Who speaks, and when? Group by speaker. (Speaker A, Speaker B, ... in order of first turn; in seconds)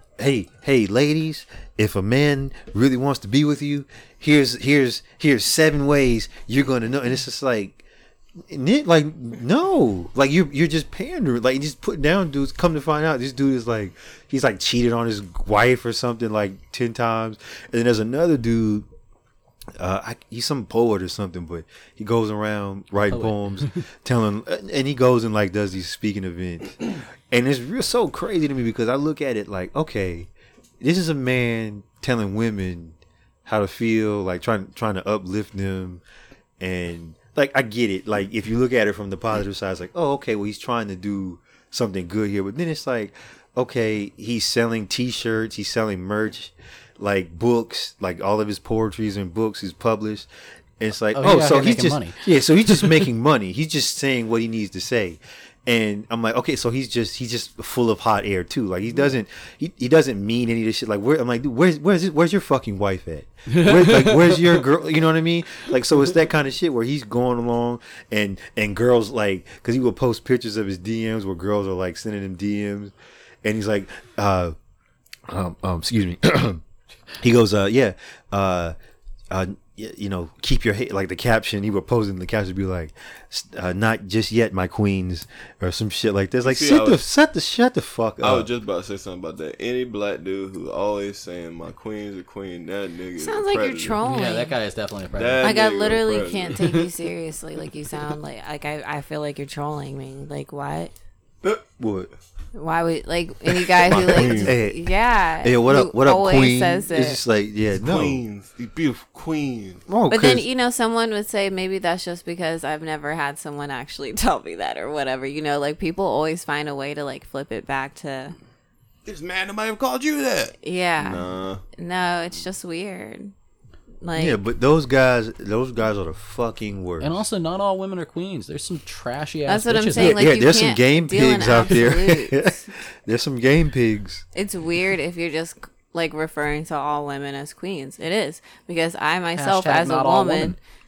Speaker A: 0.2-7.8, 8.5-18.9, 19.8-30.3, 30.8-36.0, 36.6-50.3, 50.8-74.5, 75.3-76.6, 77.2-78.7, 79.3-88.5, 101.8-102.1, 103.9-108.2, 109.9-110.5, 124.2-127.2, 129.9-134.2
Speaker B: 23.1-23.8, 51.1-53.0, 63.5-64.6, 94.0-95.5, 127.0-130.2, 139.3-140.6
Speaker C: 86.4-87.0, 88.2-94.0, 95.2-96.7, 103.5-104.5, 107.8-109.8, 119.0-121.6
Speaker D: 93.2-94.5, 95.4-100.9, 102.5-107.2, 110.1-118.3, 120.6-123.3, 124.0-124.4, 129.5-132.6, 134.3-140.6